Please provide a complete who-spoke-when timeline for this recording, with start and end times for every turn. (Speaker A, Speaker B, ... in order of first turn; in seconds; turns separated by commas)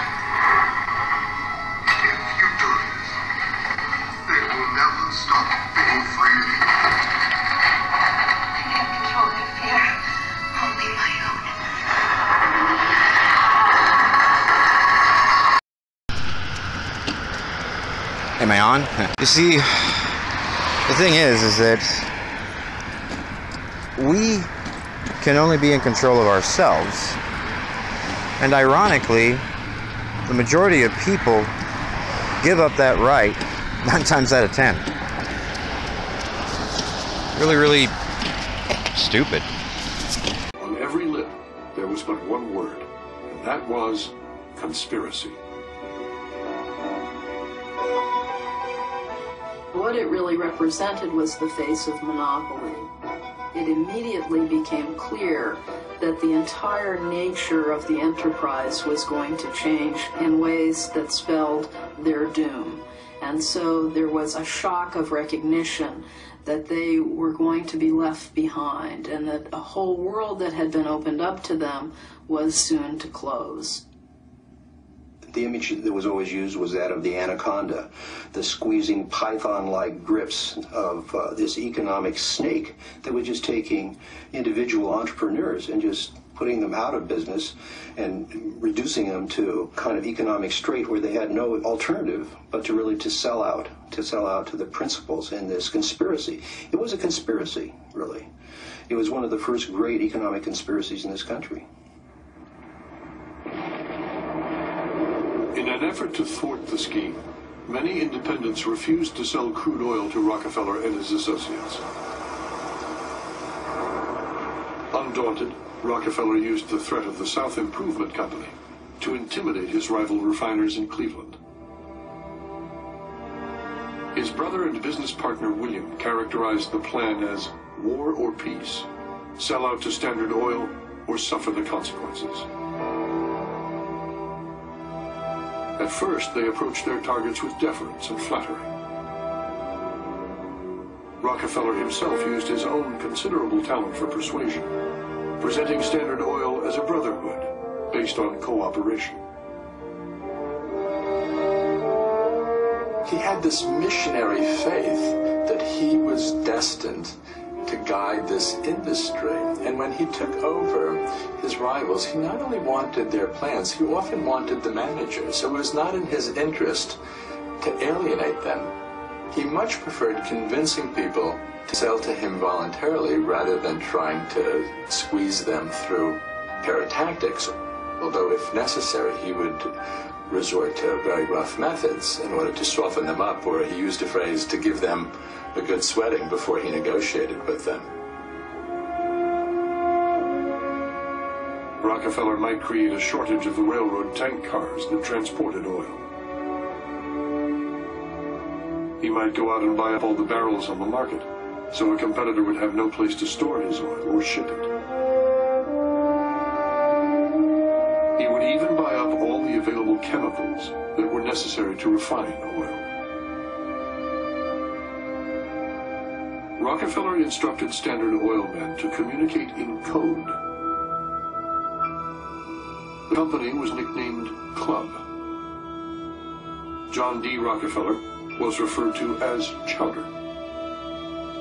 Speaker A: 2.0-3.0, Speaker A: 4.3-6.5, Speaker B: 8.7-9.9, Speaker B: 10.6-11.4, Speaker C: 18.4-20.2, Speaker C: 20.9-22.1, Speaker C: 24.0-24.5, Speaker C: 25.2-27.2, Speaker C: 28.4-29.4, Speaker C: 30.3-31.5, Speaker C: 32.4-34.9, Speaker C: 37.3-38.0, Speaker C: 38.9-39.5, Speaker D: 40.6-45.4, Speaker E: 49.7-52.9, Speaker E: 53.5-73.8, Speaker F: 75.3-98.3, Speaker F: 98.9-101.7, Speaker D: 105.5-111.8, Speaker D: 114.9-121.4, Speaker D: 124.1-128.9, Speaker D: 129.4-132.5, Speaker D: 135.8-138.7, Speaker D: 141.2-144.7, Speaker D: 145.4-149.2, Speaker G: 153.0-167.0, Speaker G: 167.6-168.7, Speaker G: 169.3-179.7, Speaker G: 180.3-187.9, Speaker D: 191.8-196.1, Speaker D: 199.0-204.7, Speaker D: 208.2-212.9, Speaker D: 216.6-220.3, Speaker D: 223.1-225.0, Speaker D: 226.9-230.1